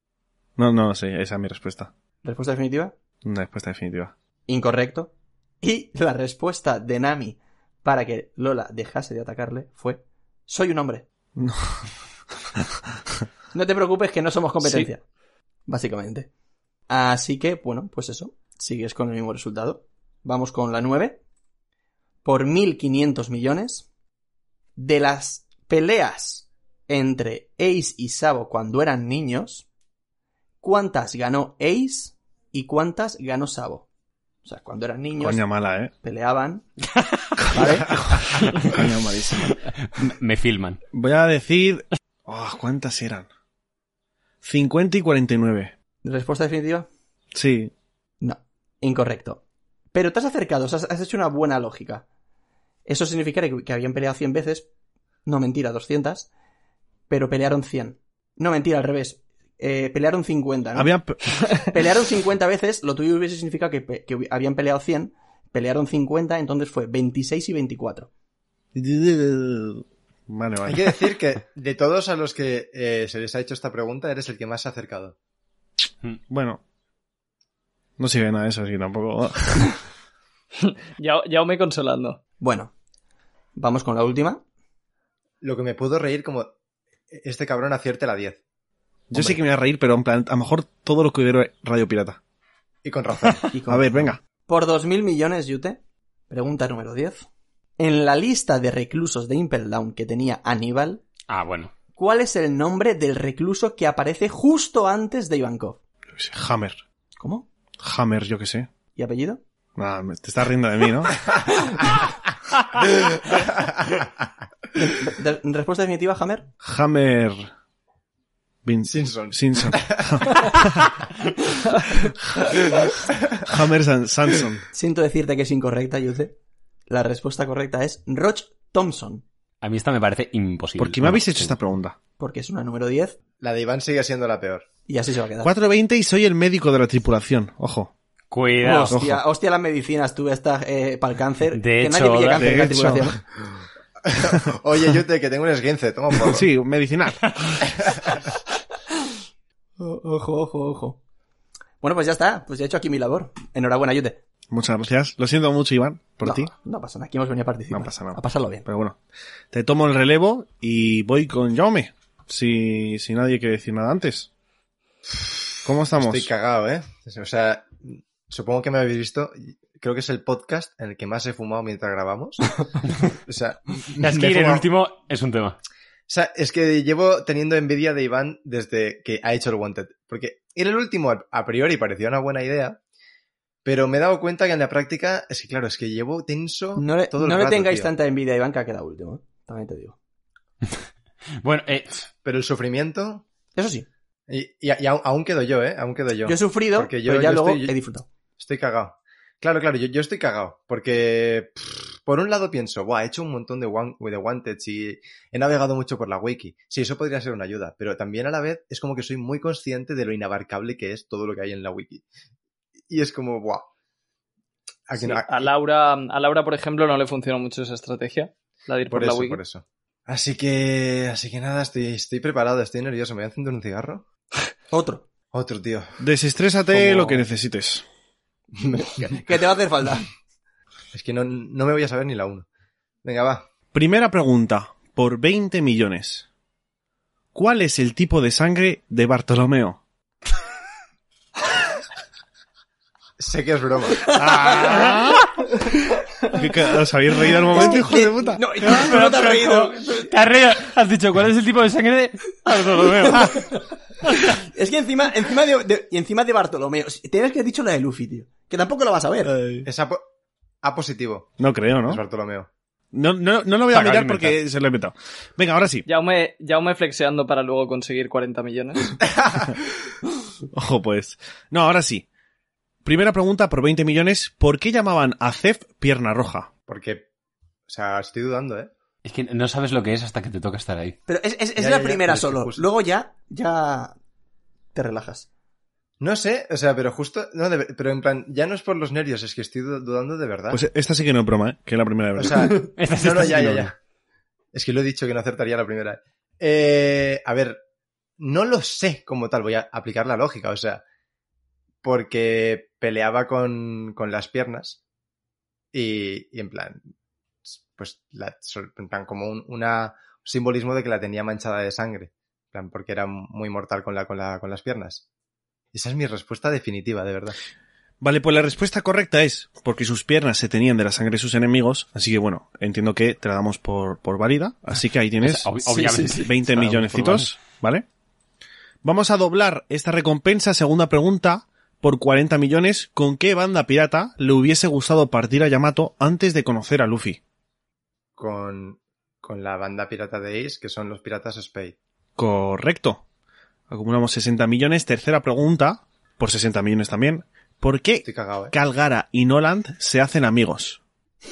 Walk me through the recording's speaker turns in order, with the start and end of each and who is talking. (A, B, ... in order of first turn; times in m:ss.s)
0:00.6-0:01.9 A
0:02.2-0:02.9 B
0:03.2-0:04.1 A
0:04.5-0:11.0 B
0:11.4-0:11.9 A
0:13.5-0:15.0 B
0:14.6-0:14.9 C
0:15.7-0:16.3 B
0:16.9-0:21.2 B
0:22.2-0:23.9 B
0:24.8-0:29.6 B
0:30.6-0:33.9 B
0:34.4-0:36.6 B
0:35.2-0:35.9 A
0:37.0-0:37.4 D
0:37.4-0:39.6 A
0:37.5-0:38.0 B
0:39.4-0:40.8 D
0:40.9-0:43.3 A
0:44.4-0:45.7 A
0:46.0-0:46.9 B
0:47.3-0:47.7 A
0:48.2-0:49.4 B
0:49.9-0:52.0 B
0:52.8-0:54.7 B
0:55.2-0:56.3 B
0:57.1-1:00.9 B
1:00.8-1:01.4 A
1:01.6-1:08.1 B
1:08.7-1:11.0 A
1:10.6-1:15.2 E
1:16.3-1:16.6 A
1:18.0-1:19.8 A
1:20.6-1:22.2 C
1:22.4-1:22.7 B
1:23.6-1:24.4 B
1:25.4-1:26.5 E
1:27.1-1:28.4 E
1:29.1-1:32.2 A
1:32.8-1:33.4 E
1:33.5-1:37.2 B
1:33.7-1:34.2 A
1:37.8-1:41.0 B
1:41.3-1:41.7 D
1:41.9-1:45.8 B
1:46.1-1:46.8 A
1:47.2-1:47.4 B
1:47.8-1:48.7 A
1:48.9-1:49.4 B
1:49.8-1:51.4 A
1:54.8-1:56.5 B
1:56.6-1:57.5 A
1:58.6-2:01.0 A
1:58.8-2:00.4 E
2:03.4-2:04.7 A
2:04.7-2:06.4 B
2:06.9-2:09.2 B
2:09.6-2:11.6 D
2:10.8-2:12.0 A
2:12.2-2:13.2 B
2:13.4-2:14.7 E
2:14.9-2:15.5 B
2:15.4-2:17.9 A
2:18.3-2:19.0 D
2:18.6-2:23.2 B
2:18.8-2:19.2 A
2:21.5-2:22.7 D
2:22.3-2:23.1 A
2:24.0-2:26.5 E
2:26.2-2:27.3 A
2:27.8-2:28.2 E
2:29.8-2:31.0 B
2:31.8-2:34.2 B
2:34.5-2:36.5 A
2:36.2-2:38.6 B
2:37.7-2:39.0 A
2:39.5-2:44.3 A
2:45.6-2:46.3 A
2:45.9-2:54.6 E
2:54.0-2:55.6 D
2:56.1-3:02.8 E
3:03.6-3:07.9 E
3:06.8-3:10.0 B
3:11.4-3:12.1 D
3:12.2-3:13.2 E
3:13.5-3:13.9 B
3:14.3-3:17.7 E
3:16.2-3:18.0 B
3:18.4-3:32.0 E
3:32.9-3:33.7 E
3:34.9-3:35.5 E
3:35.0-3:39.4 C
3:38.9-3:44.0 E
3:44.7-3:45.0 B
3:45.3-3:46.0 E
3:46.0-3:47.8 A
3:46.7-3:47.2 E
3:48.6-3:50.1 B
3:48.8-3:49.0 E
3:50.9-3:52.4 E
3:53.0-3:53.5 E
3:53.7-3:56.2 A
3:57.3-3:59.8 A
4:03.2-4:04.2 E
4:04.1-4:05.4 A
4:06.3-4:08.9 A
4:07.5-4:10.0 B
4:08.6-4:13.5 D
4:14.2-4:19.3 B
4:19.3-4:19.7 A
4:19.6-4:20.0 E
4:20.6-4:22.5 E
4:21.4-4:22.0 A
4:22.9-4:25.8 A
4:23.7-4:24.4 D
4:25.8-4:29.0 C
4:29.1-4:29.5 E
4:30.5-4:32.0 A
4:32.8-4:36.5 A
4:36.7-4:37.0 E
4:37.7-4:38.7 E
4:39.0-4:41.0 D
4:41.1-4:44.0 B
4:41.6-4:42.6 E
4:44.7-4:45.3 B
4:46.0-4:50.6 E
4:50.5-4:52.7 A
4:52.2-4:53.7 E
4:52.6-4:53.7 D
4:54.5-4:57.6 E
4:58.2-5:00.8 E
5:01.8-5:04.8 E
5:05.7-5:06.8 E
5:07.5-5:15.0 E
5:15.7-5:17.4 E
5:18.0-5:27.8 A
5:25.2-5:27.3 D
5:25.7-5:26.3 B
5:28.8-5:37.2 A
5:38.2-5:41.8 E
5:42.2-5:43.0 A
5:43.7-5:50.8 A
5:48.0-5:48.5 E